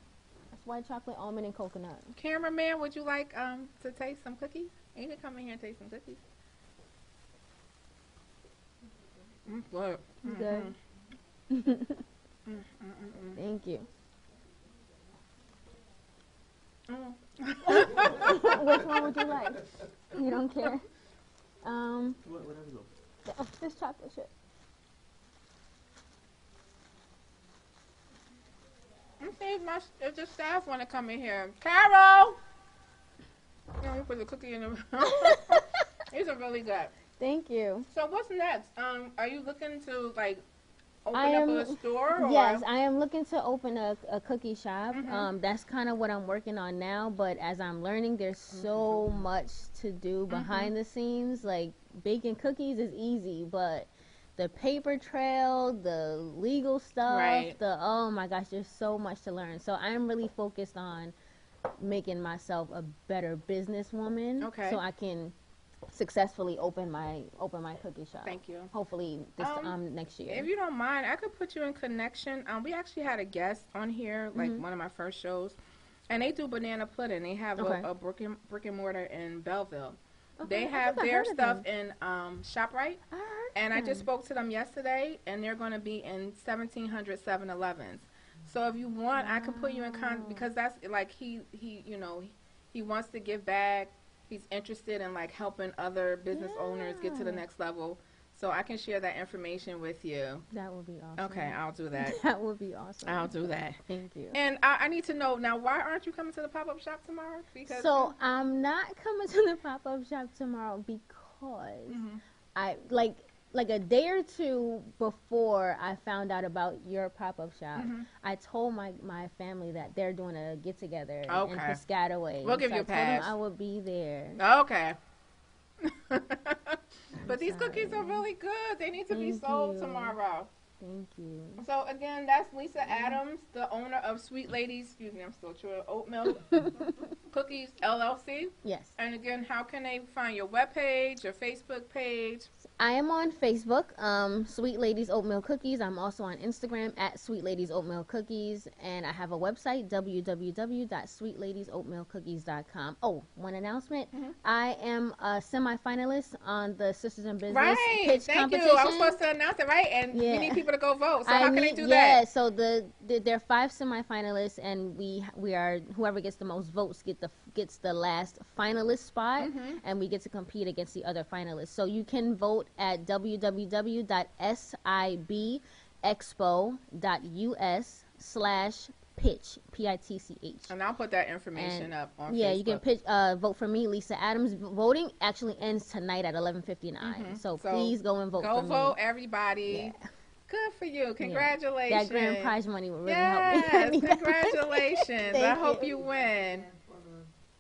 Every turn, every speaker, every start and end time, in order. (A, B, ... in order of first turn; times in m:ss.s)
0:00.5-0:02.1 A
0:02.1-0:06.2 B
0:09.5-0:10.7 B
0:10.2-0:10.7 A
0:11.5-0:12.0 A
0:12.5-0:13.4 B
0:13.4-0:13.9 A
0:16.9-0:18.6 B
0:17.7-0:20.8 A
0:21.6-0:22.2 A
0:23.3-0:24.3 A
0:29.2-0:32.4 B
0:33.8-0:36.9 B
0:35.0-0:35.6 A
0:37.2-0:37.9 A
0:37.9-0:40.4 B
0:41.0-0:42.6 B
0:41.1-1:01.1 A
0:44.9-0:45.3 B
0:48.5-0:49.0 B
0:50.3-0:50.7 B
0:57.0-0:57.6 B
1:01.8-1:05.3 A
1:04.4-1:04.8 B
1:05.9-1:10.5 A
1:08.2-1:08.7 B
1:09.4-1:15.6 B
1:14.3-1:14.6 A
1:16.1-1:23.0 B
1:17.6-1:17.8 A
1:20.4-1:21.6 A
1:23.1-1:24.1 A
1:23.5-1:40.4 B
1:29.2-1:30.5 A
1:36.3-1:37.4 A
1:40.5-1:44.4 A
1:41.2-1:42.2 B
1:43.0-1:43.8 B
1:44.3-1:48.1 B
1:47.7-1:52.0 A
1:51.9-1:52.2 B
1:52.5-2:04.4 A
1:57.7-1:58.1 B
2:01.3-2:01.8 B
2:02.4-2:03.3 B
2:04.4-2:05.0 B
2:05.8-2:10.5 B
2:07.2-2:08.2 A
2:09.1-2:10.2 A
2:10.8-2:11.6 A
2:11.6-2:16.7 B
2:12.9-2:13.2 A
2:16.5-2:16.9 A
2:17.3-2:22.5 B
2:18.6-2:18.9 A
2:22.8-2:39.2 A
2:37.5-2:42.2 B
2:40.1-2:40.7 A
2:41.2-3:00.7 A
2:49.4-2:49.8 B
3:00.7-3:02.8 B
3:01.6-3:09.0 A
3:07.0-3:09.9 B
3:09.7-3:10.0 A
3:10.5-3:16.6 B
3:11.2-3:16.0 A